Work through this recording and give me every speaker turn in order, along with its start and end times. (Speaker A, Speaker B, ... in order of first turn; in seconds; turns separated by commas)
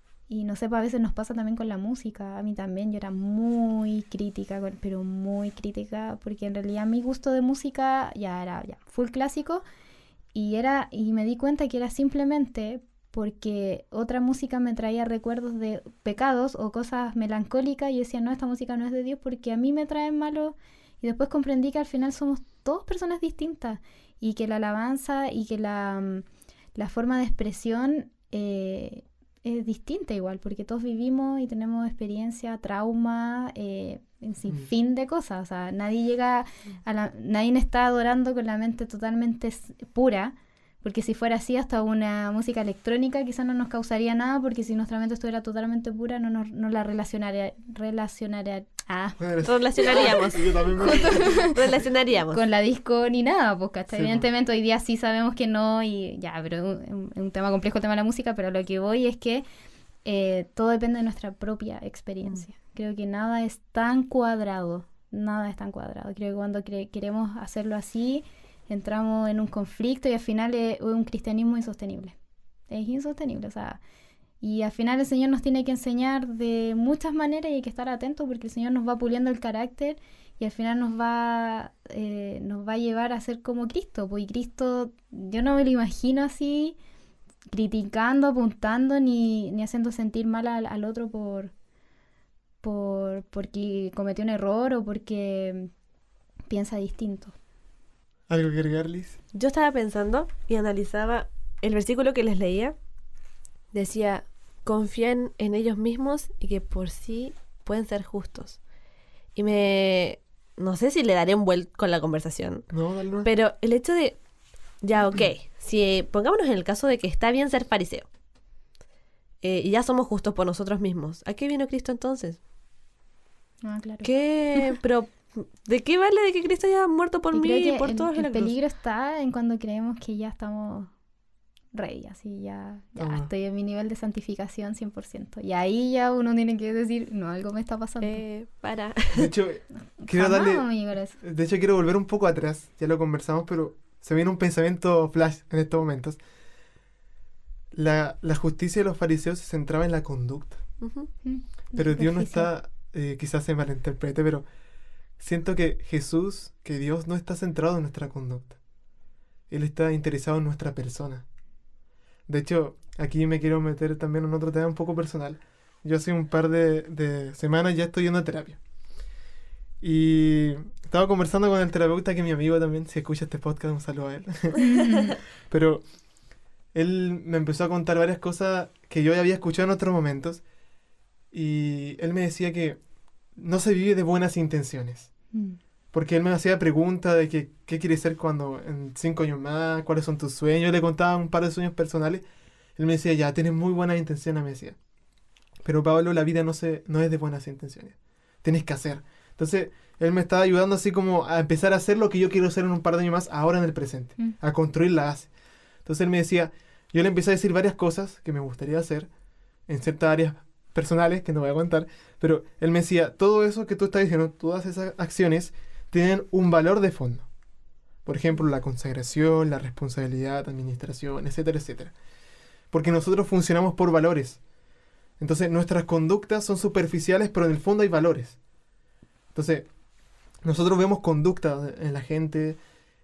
Speaker A: 0.3-9.6, Speaker A: 10.3-49.2, Speaker B: 49.2-51.5, Speaker C: 49.4-52.4, Speaker A: 49.9-50.2, Speaker A: 50.8-51.6, Speaker A: 52.3-59.5, Speaker B: 53.9-54.2, Speaker A: 60.0-72.2, Speaker A: 72.7-73.8, Speaker A: 74.4-86.8, Speaker A: 87.5-91.5, Speaker A: 92.6-95.7, Speaker A: 96.5-97.3, Speaker B: 98.3-99.2, Speaker C: 99.3-102.8, Speaker C: 103.7-108.6, Speaker C: 109.4-112.7, Speaker B: 112.7-113.3, Speaker C: 113.2-114.2, Speaker C: 114.8-118.1, Speaker C: 119.4-122.4, Speaker A: 123.6-124.7, Speaker C: 124.0-128.6, Speaker A: 127.3-130.9, Speaker A: 131.7-138.2, Speaker B: 133.0-133.3, Speaker C: 138.0-139.3, Speaker B: 139.1-146.2, Speaker A: 140.0-141.2, Speaker B: 147.7-150.6, Speaker C: 150.8-151.1, Speaker A: 151.2-152.5, Speaker B: 151.7-154.5, Speaker B: 155.2-158.6, Speaker B: 159.5-161.2, Speaker B: 162.3-168.6, Speaker B: 169.8-174.7, Speaker A: 174.6-175.2, Speaker B: 175.5-175.8, Speaker B: 176.7-180.4, Speaker B: 181.3-182.8, Speaker B: 183.3-185.1, Speaker A: 185.3-185.6, Speaker B: 185.9-192.2, Speaker B: 192.8-194.8, Speaker B: 195.6-205.3, Speaker B: 205.9-209.1, Speaker B: 209.7-217.3, Speaker B: 218.1-221.9, Speaker B: 222.7-224.4, Speaker B: 225.2-228.4, Speaker B: 229.3-229.7, Speaker B: 230.4-232.6